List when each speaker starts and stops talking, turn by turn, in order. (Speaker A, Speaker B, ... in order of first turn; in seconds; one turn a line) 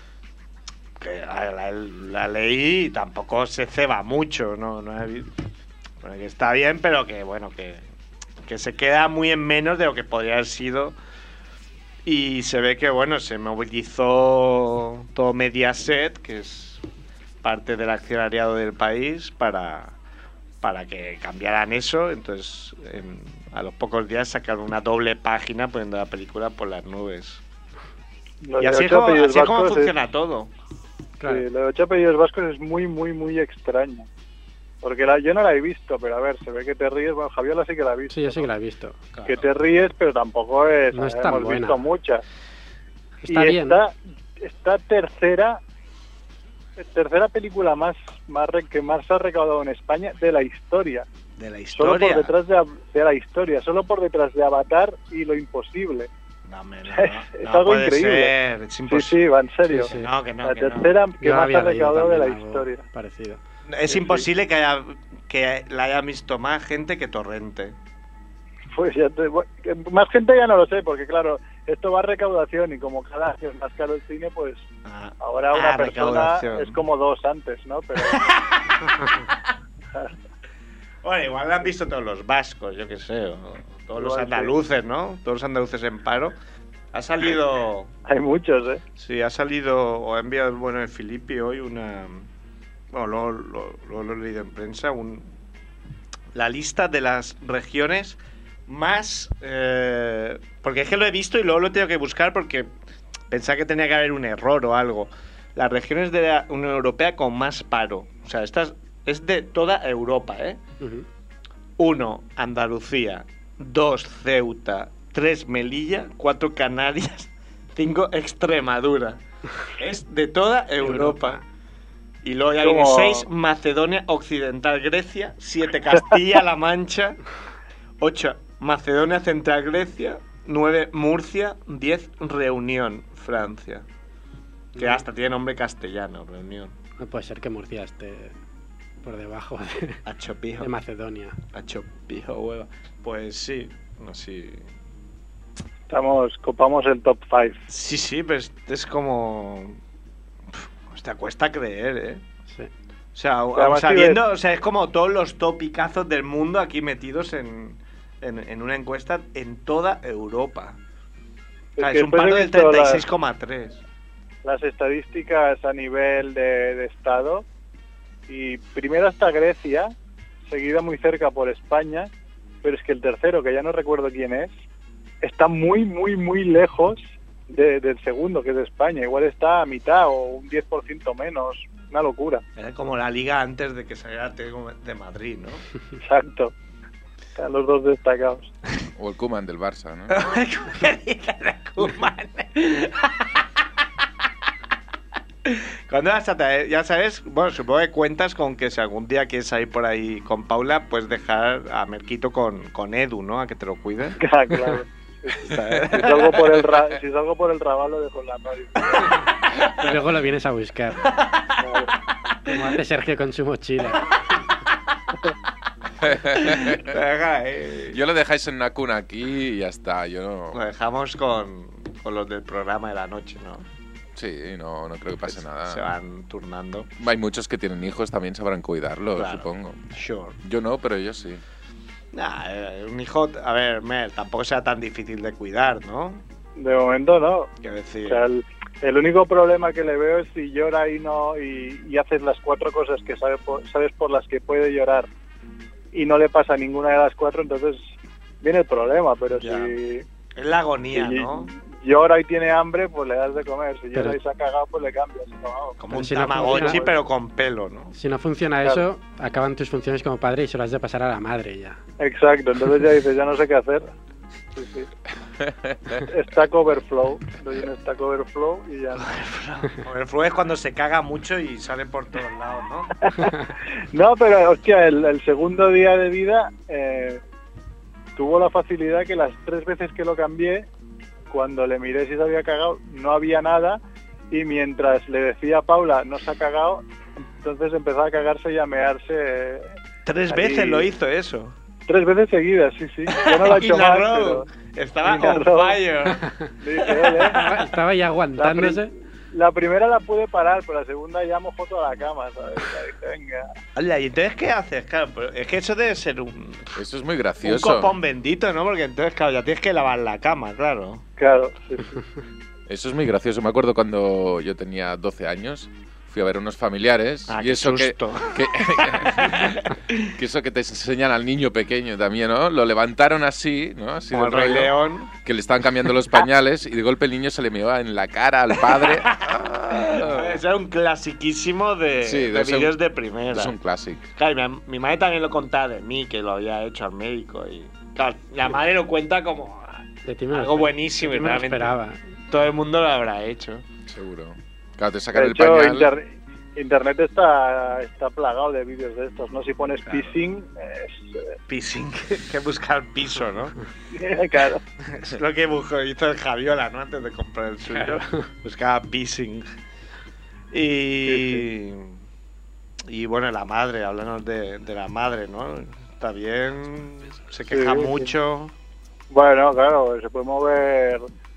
Speaker A: 1.0-5.3
Speaker A: 6.0-7.8
Speaker A: 8.4-11.0
Speaker A: 12.0-16.8
Speaker A: 17.4-20.0
Speaker A: 20.6-27.4
Speaker B: 28.4-29.9
Speaker A: 28.6-30.5
Speaker B: 31.2-34.1
Speaker B: 34.8-38.5
Speaker C: 38.1-39.0
Speaker A: 39.1-39.5
Speaker B: 39.3-42.2
Speaker C: 40.9-41.8
Speaker C: 43.2-43.8
Speaker B: 43.3-45.6
Speaker B: 46.8-51.0
Speaker A: 51.4-52.3
Speaker B: 51.7-56.1
Speaker A: 56.5-59.2
Speaker B: 56.9-58.3
Speaker B: 58.9-59.9
Speaker C: 59.7-60.1
Speaker A: 59.9-61.0
Speaker B: 60.4-62.8
Speaker C: 61.2-63.4
Speaker A: 63.7-67.7
Speaker B: 63.9-64.2
Speaker B: 68.7-74.6
Speaker A: 74.8-76.8
Speaker B: 75.2-78.3
Speaker A: 78.0-79.3
Speaker A: 81.0-86.3
Speaker B: 84.0-84.5
Speaker A: 86.9-87.9
Speaker B: 88.1-88.8
Speaker A: 89.0-92.3
Speaker A: 92.9-95.3
Speaker A: 96.3-102.7
Speaker A: 103.3-110.6
Speaker C: 110.8-111.0
Speaker A: 111.8-119.2
Speaker A: 119.8-121.4
Speaker C: 120.8-121.4
Speaker A: 122.2-127.2
Speaker B: 122.6-123.3
Speaker A: 128.0-133.8
Speaker C: 134.8-135.0
Speaker A: 134.8-136.7
Speaker C: 137.0-138.3
Speaker C: 139.0-140.0
Speaker A: 140.1-140.7
Speaker C: 140.6-141.4
Speaker A: 141.5-144.7
Speaker B: 145.9-147.6
Speaker A: 147.7-149.8
Speaker A: 150.5-152.2
Speaker A: 153.1-160.8
Speaker B: 153.5-154.2
Speaker B: 161.8-163.0
Speaker A: 161.8-163.8
Speaker B: 164.4-167.4
Speaker B: 168.3-169.9
Speaker B: 170.5-172.1
Speaker B: 172.6-174.5
Speaker B: 175.2-182.4
Speaker A: 182.6-185.6
Speaker B: 186.0-186.5
Speaker B: 187.3-188.5
Speaker D: 189.0-190.2
Speaker A: 190.1-193.4
Speaker A: 195.4-204.2
Speaker B: 204.2-209.2
Speaker A: 205.4-206.6
Speaker C: 209.8-211.0
Speaker A: 211.0-211.5
Speaker B: 211.6-211.9
Speaker C: 212.4-214.2
Speaker D: 216.0-216.9
Speaker A: 216.4-218.0
Speaker D: 217.9-220.6
Speaker A: 220.5-223.7
Speaker D: 224.2-225.8
Speaker A: 225.2-226.9
Speaker D: 227.0-229.8
Speaker A: 229.2-230.4
Speaker D: 230.4-231.4
Speaker A: 232.1-236.2
Speaker B: 236.6-237.5
Speaker A: 237.6-238.2
Speaker B: 238.1-245.1
Speaker B: 245.9-247.8
Speaker B: 248.4-250.0
Speaker A: 249.4-249.7
Speaker A: 250.3-251.5
Speaker B: 250.9-255.8
Speaker A: 255.8-257.9
Speaker C: 255.9-256.8
Speaker B: 256.3-256.9
Speaker C: 257.9-261.8
Speaker B: 262.0-263.9
Speaker B: 264.5-264.9
Speaker D: 265.4-266.0
Speaker B: 266.0-269.1
Speaker A: 269.0-272.9
Speaker B: 273.0-273.4
Speaker B: 273.9-277.2
Speaker B: 278.1-280.7
Speaker B: 281.3-286.8
Speaker B: 287.4-289.7
Speaker A: 290.1-291.5
Speaker B: 290.3-290.9
Speaker B: 291.9-294.4
Speaker A: 293.1-296.3
Speaker B: 295.0-295.8
Speaker B: 296.6-297.5
Speaker A: 296.8-297.4
Speaker C: 297.3-298.9
Speaker B: 298.4-303.5
Speaker A: 303.8-306.7
Speaker D: 306.8-307.9
Speaker A: 307.4-311.0
Speaker B: 311.2-312.0
Speaker D: 312.7-319.6
Speaker A: 317.3-320.1
Speaker D: 320.2-330.4
Speaker A: 324.1-325.1
Speaker A: 328.6-333.5
Speaker D: 332.0-332.7
Speaker D: 333.3-334.1
Speaker A: 334.1-341.8
Speaker C: 340.1-342.0
Speaker A: 342.3-343.6
Speaker D: 343.9-345.9
Speaker B: 345.1-351.4
Speaker A: 349.9-350.1
Speaker A: 351.5-353.5
Speaker B: 353.9-354.6
Speaker A: 354.8-359.5
Speaker C: 357.7-358.3
Speaker A: 360.5-362.0
Speaker B: 361.1-361.4
Speaker A: 362.9-368.5
Speaker B: 367.5-368.1
Speaker B: 369.1-371.0